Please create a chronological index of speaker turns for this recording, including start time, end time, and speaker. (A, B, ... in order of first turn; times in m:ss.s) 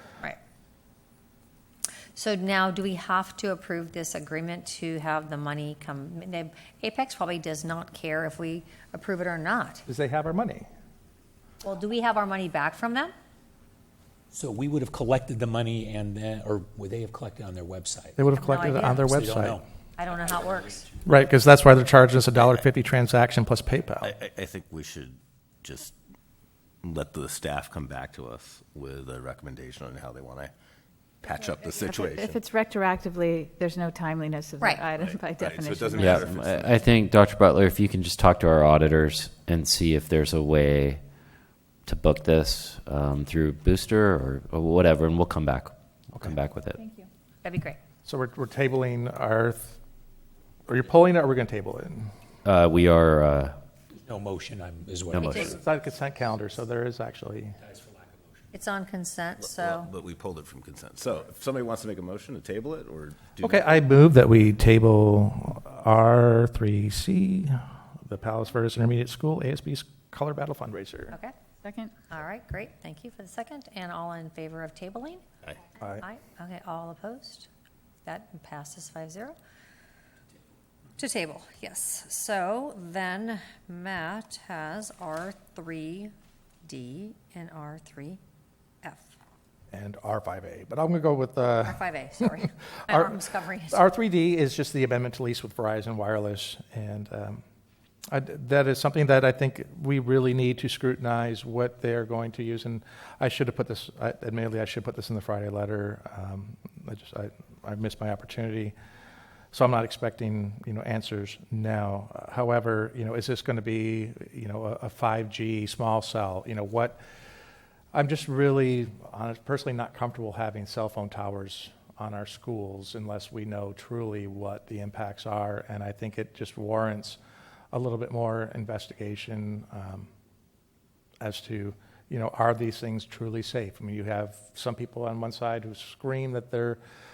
0:02.2-0:09.8 A
0:09.9-0:10.7 B
0:11.6-0:13.1 A
0:14.3-0:18.3 C
0:18.2-0:19.6 B
0:18.3-0:19.1 A
0:18.9-0:21.0 C
0:20.0-0:20.9 A
0:21.1-0:24.1 B
0:24.0-0:26.0 D
0:26.8-0:30.5 D
0:31.2-0:32.4 D
0:31.8-0:36.3 E
0:34.6-0:34.9 A
0:35.0-0:36.8 D
0:36.0-0:41.0 F
0:41.9-0:46.8 F
0:46.8-0:47.1 E
0:47.4-0:47.8 A
0:48.0-0:49.8 B
0:50.7-0:52.1 B
0:52.4-0:53.6 F
0:54.0-0:55.6 C
0:55.1-0:55.5 F
0:55.3-0:55.6 A
0:55.4-0:57.6 B
0:57.6-0:58.6 C
0:58.5-0:59.9 A
0:59.4-1:03.7 D
1:03.4-1:11.2 B
1:11.6-1:11.9 E
1:12.1-1:15.2 A
1:16.0-1:17.5 A
1:18.1-1:19.4 A
1:21.0-1:26.1 A
1:26.6-1:28.2 A
1:29.7-1:37.4 B
1:31.6-1:33.8 A
1:38.1-1:48.7 B
1:49.5-1:57.0 B
1:57.9-2:07.2 B
2:07.7-2:10.1 B
2:11.2-2:16.8 B